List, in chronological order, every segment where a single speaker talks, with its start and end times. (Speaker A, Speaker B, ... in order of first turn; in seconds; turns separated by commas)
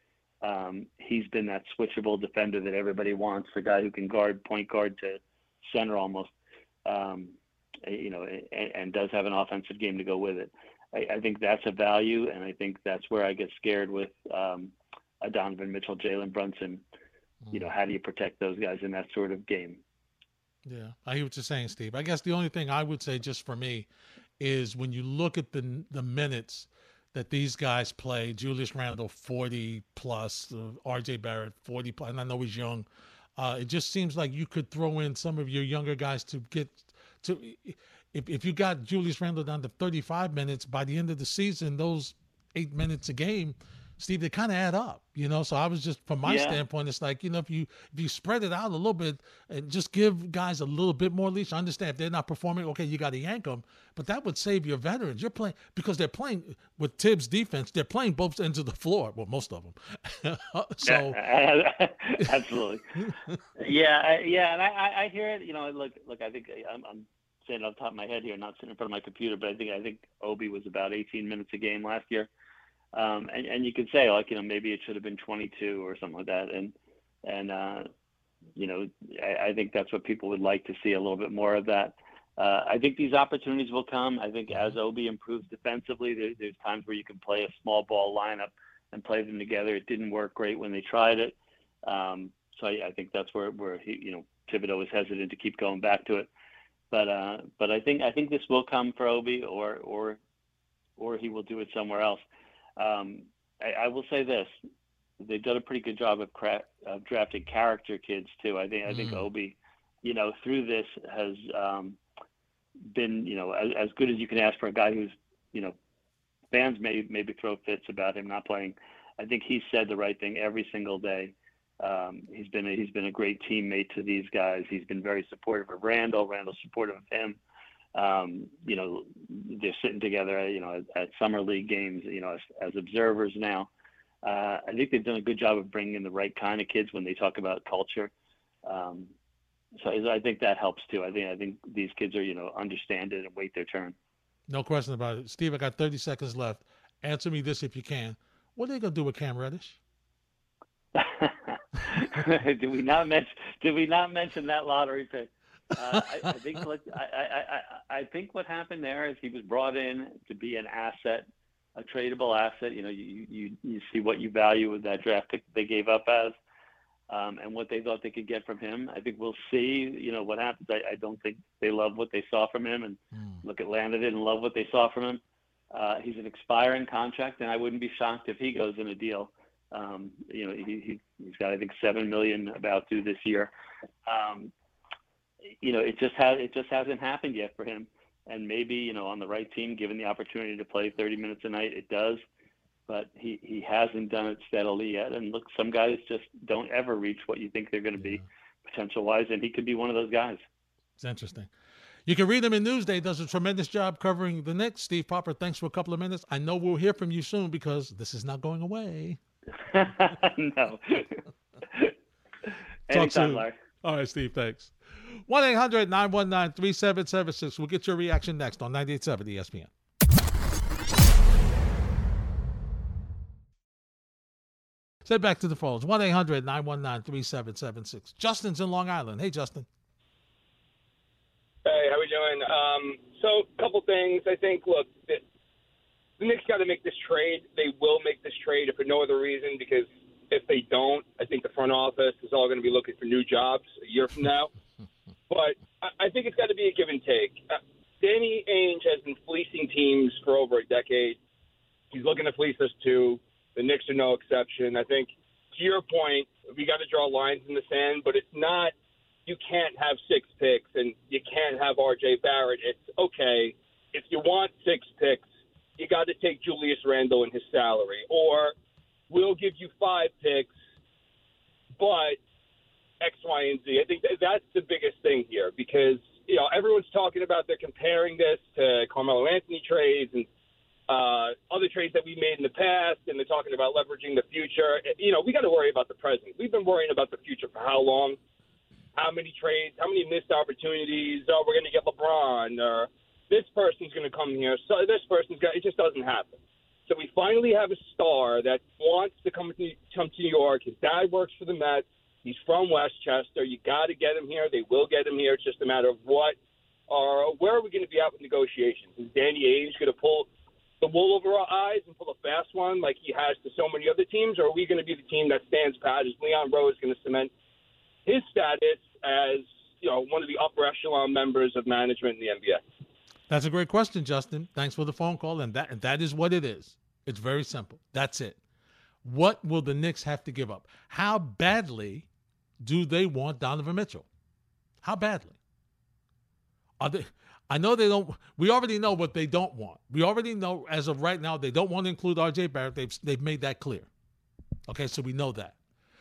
Speaker A: 0.4-6.3, Speaker A: 6.8-16.8, Speaker B: 17.5-17.7, Speaker A: 17.5-19.8, Speaker B: 20.6-23.9, Speaker B: 24.4-32.9, Speaker B: 33.4-61.2, Speaker A: 46.2-46.6, Speaker A: 60.8-62.8, Speaker B: 63.0-63.4, Speaker A: 63.6-72.3, Speaker A: 72.9-77.9, Speaker A: 78.5-91.3, Speaker B: 84.5-84.7, Speaker A: 91.8-96.3, Speaker A: 96.9-100.2, Speaker A: 101.0-102.2, Speaker A: 102.8-104.5, Speaker A: 105.2-112.0, Speaker B: 108.9-109.2, Speaker A: 112.9-115.7, Speaker A: 116.5-127.4, Speaker A: 127.9-133.7, Speaker A: 134.2-138.1, Speaker A: 138.6-139.1, Speaker A: 139.8-143.9, Speaker B: 144.5-149.8, Speaker A: 150.9-161.2, Speaker A: 161.8-166.3, Speaker A: 167.1-175.2, Speaker B: 173.1-173.4, Speaker A: 175.7-183.5, Speaker A: 184.1-184.5, Speaker A: 185.6-192.2, Speaker A: 192.9-200.4, Speaker B: 197.9-198.2, Speaker B: 201.0-201.5, Speaker B: 202.1-209.2, Speaker A: 209.7-211.1, Speaker A: 212.9-213.6, Speaker B: 212.9-214.7, Speaker B: 215.3-219.7, Speaker B: 225.0-229.7, Speaker C: 231.6-235.2, Speaker C: 236.2-244.5, Speaker C: 245.3-251.2, Speaker C: 251.9-258.7, Speaker C: 259.2-265.3, Speaker C: 265.8-268.5, Speaker C: 269.1-270.5, Speaker C: 271.8-272.2, Speaker C: 273.0-280.3, Speaker C: 280.9-288.2, Speaker C: 288.9-306.4, Speaker C: 306.9-310.3, Speaker C: 310.8-317.3, Speaker C: 318.1-322.6, Speaker B: 323.3-328.4, Speaker B: 329.0-332.1, Speaker B: 332.6-334.1, Speaker B: 334.8-335.4, Speaker B: 336.8-343.9, Speaker B: 344.7-345.6